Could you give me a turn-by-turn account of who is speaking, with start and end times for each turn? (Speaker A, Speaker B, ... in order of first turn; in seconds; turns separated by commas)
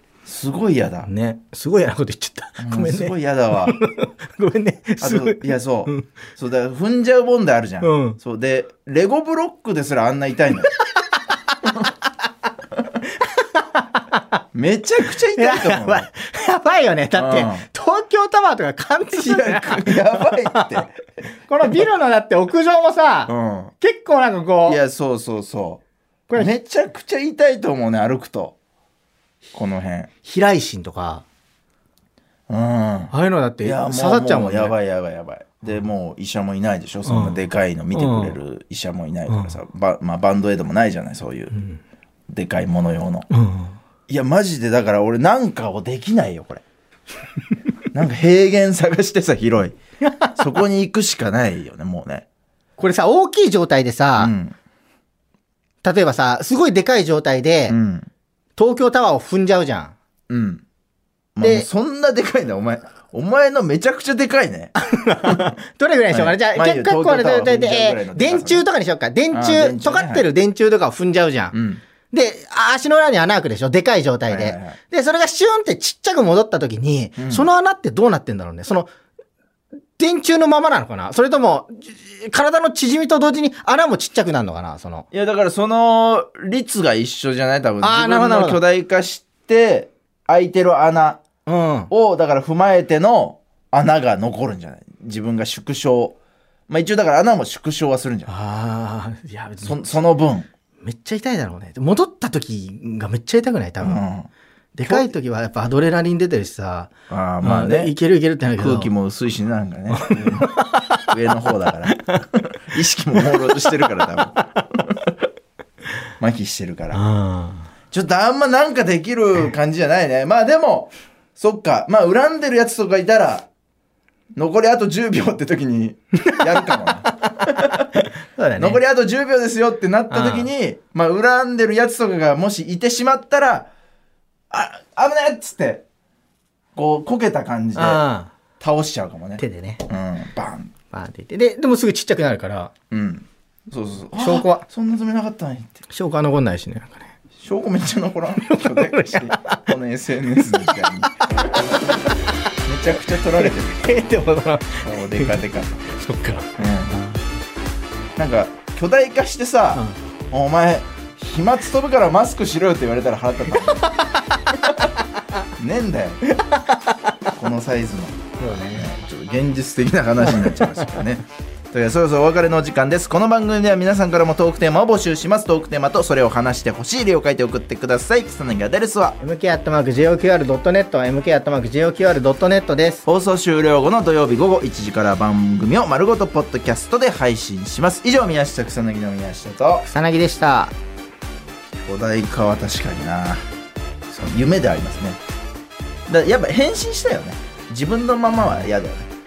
Speaker A: 0.2-1.1, Speaker B: 1.1-6.1, Speaker A: 2.6-3.8, Speaker A: 5.0-10.7, Speaker B: 7.8-8.2, Speaker B: 13.2-14.2, Speaker A: 14.5-16.1, Speaker B: 15.3-20.9, Speaker A: 17.1-17.6, Speaker A: 19.1-20.9, Speaker B: 21.5-24.8, Speaker A: 23.3-23.7, Speaker A: 24.7-25.8, Speaker A: 26.3-28.6, Speaker A: 29.5-30.1, Speaker B: 30.2-31.2, Speaker A: 32.5-41.5, Speaker B: 33.1-34.8, Speaker B: 37.0-37.4, Speaker B: 37.9-38.4, Speaker B: 39.3-39.6, Speaker A: 42.3-43.3, Speaker B: 43.3-43.8, Speaker A: 44.1-46.6, Speaker A: 47.9-49.8, Speaker B: 50.1-50.3, Speaker A: 50.4-52.2, Speaker B: 52.8-54.3, Speaker A: 54.2-54.6, Speaker B: 55.8-57.8, Speaker A: 57.7-58.1, Speaker B: 58.6-60.0, Speaker A: 60.3-60.6, Speaker A: 61.4-64.7, Speaker B: 61.4-61.7, Speaker B: 64.8-71.5, Speaker A: 65.3-65.5, Speaker A: 66.1-68.7, Speaker A: 69.3-70.3, Speaker A: 71.5-71.8, Speaker B: 72.1-78.9, Speaker A: 74.3-74.8, Speaker A: 77.2-77.5, Speaker B: 80.0-85.1, Speaker A: 85.1-91.2, Speaker B: 87.8-88.6, Speaker B: 91.5-91.9, Speaker A: 91.9-96.2, Speaker A: 96.7-98.3, Speaker B: 98.3-100.0, Speaker A: 99.7-100.5, Speaker B: 100.8-104.0, Speaker A: 103.8-104.3, Speaker B: 104.8-106.9, Speaker A: 107.1-107.9, Speaker B: 107.4-108.9, Speaker A: 108.6-110.5, Speaker B: 109.9-111.4, Speaker A: 111.0-115.0, Speaker A: 116.2-117.0, Speaker B: 116.9-117.7, Speaker A: 117.9-123.5, Speaker A: 124.3-127.9, Speaker B: 126.2-128.8, Speaker A: 128.6-133.7, Speaker B: 130.1-130.5, Speaker A: 134.5-135.8, Speaker A: 136.8-138.0, Speaker B: 137.8-138.3, Speaker A: 138.6-140.7, Speaker B: 139.4-139.8, Speaker B: 140.9-142.7, Speaker A: 142.9-145.8, Speaker B: 144.2-144.7, Speaker B: 145.9-147.1, Speaker A: 147.4-151.2, Speaker B: 148.4-149.7, Speaker B: 150.5-150.9, Speaker A: 152.7-153.9, Speaker B: 153.0-157.2, Speaker A: 154.8-155.8, Speaker A: 156.6-157.0, Speaker A: 158.2-163.9, Speaker B: 163.6-164.6, Speaker A: 165.6-166.2, Speaker B: 166.3-166.9, Speaker A: 167.3-179.2, Speaker B: 168.4-168.9, Speaker B: 170.3-171.0, Speaker B: 179.2-183.0, Speaker A: 183.1-189.9, Speaker B: 189.9-190.7, Speaker A: 191.8-193.4, Speaker A: 194.2-195.2, Speaker A: 196.1-199.1